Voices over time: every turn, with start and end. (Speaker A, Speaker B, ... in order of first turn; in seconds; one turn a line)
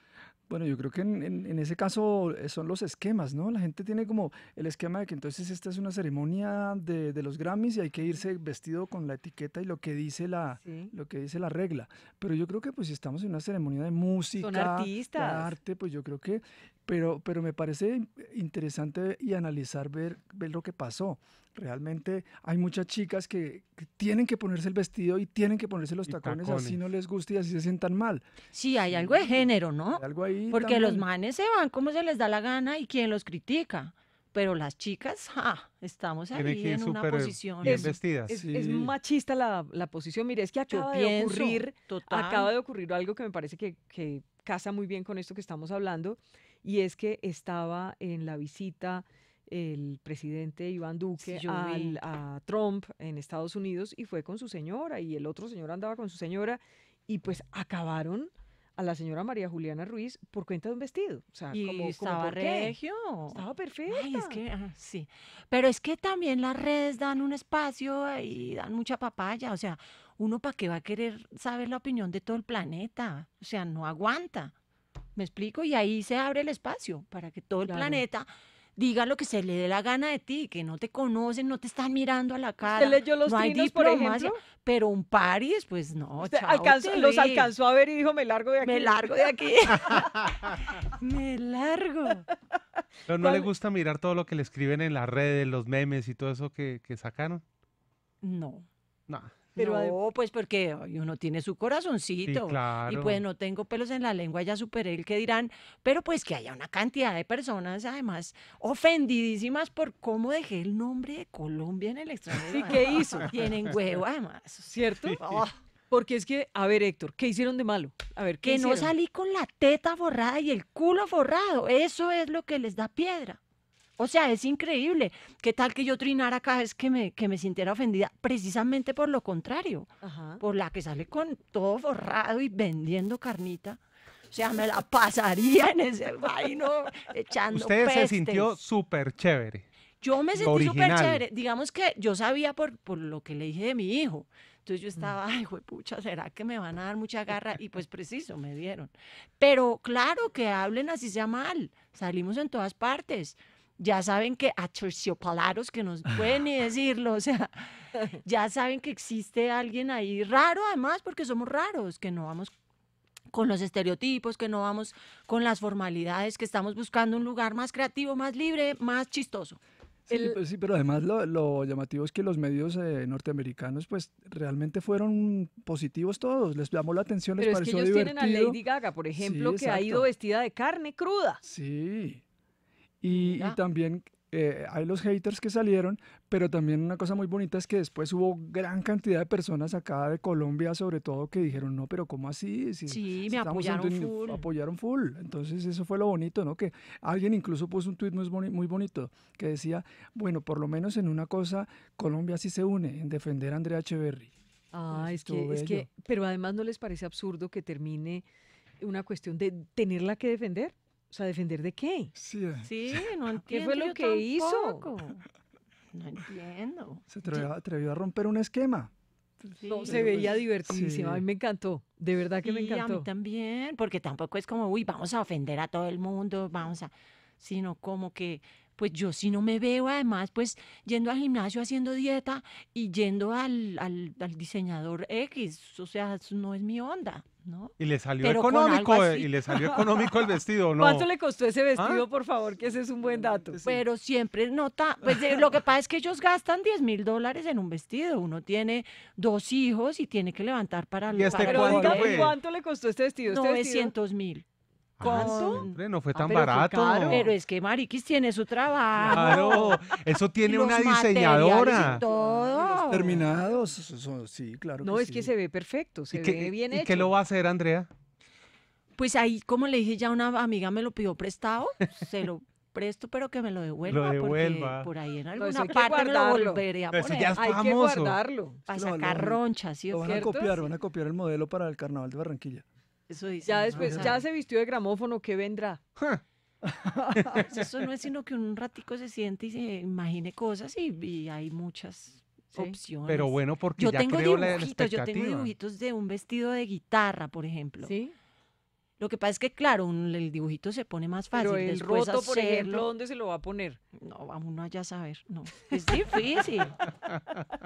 Speaker A: 0.5-28.3
Speaker B: 10.6-10.9
Speaker B: 14.4-15.6
Speaker C: 26.1-26.8
Speaker D: 28.5-37.9
Speaker A: 28.9-31.1
Speaker C: 36.3-38.4
Speaker B: 37.6-62.7
Speaker A: 38.3-38.9
Speaker D: 40.7-42.5
Speaker D: 51.2-52.0
Speaker D: 61.5-74.5
Speaker B: 63.3-64.4
Speaker D: 75.2-87.5
Speaker B: 77.6-78.0
Speaker B: 82.7-84.4
Speaker B: 86.2-89.1
Speaker D: 88.6-90.2
Speaker C: 89.8-90.5
Speaker D: 90.8-92.2
Speaker C: 93.1-97.4
Speaker B: 93.2-93.5
Speaker D: 98.2-98.7
Speaker C: 99.1-99.5
Speaker B: 99.5-100.0
Speaker D: 99.5-115.5
Speaker C: 102.2-103.2
Speaker B: 112.5-113.3
Speaker B: 114.7-115.2
Speaker B: 115.9-118.9
Speaker D: 118.4-123.4
Speaker D: 124.0-133.8
Speaker B: 130.0-130.4
Speaker D: 134.3-138.6
Speaker C: 137.5-139.7
Speaker D: 140.0-162.5
Speaker C: 140.3-141.2
Speaker D: 163.3-169.6
Speaker A: 170.1-178.6
Speaker B: 170.1-170.4
Speaker B: 177.4-181.4
Speaker A: 179.1-180.1
Speaker A: 181.4-182.2
Speaker A: 183.0-204.3
Speaker D: 183.1-183.6
Speaker D: 192.9-194.5
Speaker B: 204.7-208.2
Speaker A: 204.9-205.9
Speaker B: 208.8-212.1
Speaker A: 212.1-213.0
Speaker D: 212.6-215.2
Speaker B: 213.5-214.9
Speaker D: 215.9-217.4
Speaker A: 217.1-221.2
Speaker D: 219.6-220.3
Speaker B: 219.7-223.1
Speaker D: 222.4-239.8
Speaker C: 237.8-241.1
Speaker B: 240.8-243.6
Speaker C: 241.8-242.0
Speaker A: 243.5-243.8
Speaker D: 243.6-252.3
Speaker C: 251.1-252.3
Speaker B: 251.3-253.9
Speaker D: 253.2-254.4
Speaker C: 255.0-257.3
Speaker D: 255.0-255.8
Speaker B: 255.0-257.2
Speaker D: 257.1-263.2
Speaker B: 259.0-259.7
Speaker C: 259.1-262.0
Speaker B: 261.8-263.1
Speaker A: 262.7-265.3
Speaker B: 264.8-267.1
Speaker C: 266.1-267.9
Speaker D: 269.0-277.4
Speaker C: 271.8-272.1
Speaker C: 273.9-274.9
Speaker B: 275.4-276.6
Speaker C: 276.9-278.2
Speaker B: 277.3-278.6
Speaker D: 278.7-280.3
Speaker A: 278.7-282.6
Speaker B: 280.0-280.6
Speaker D: 283.1-284.2
Speaker B: 283.4-285.8
Speaker A: 283.7-284.2
Speaker A: 286.6-287.4
Speaker D: 287.3-297.9
Speaker C: 293.1-295.5
Speaker B: 297.8-298.1
Speaker D: 299.0-302.9
Speaker B: 301.3-303.8
Speaker D: 304.0-306.9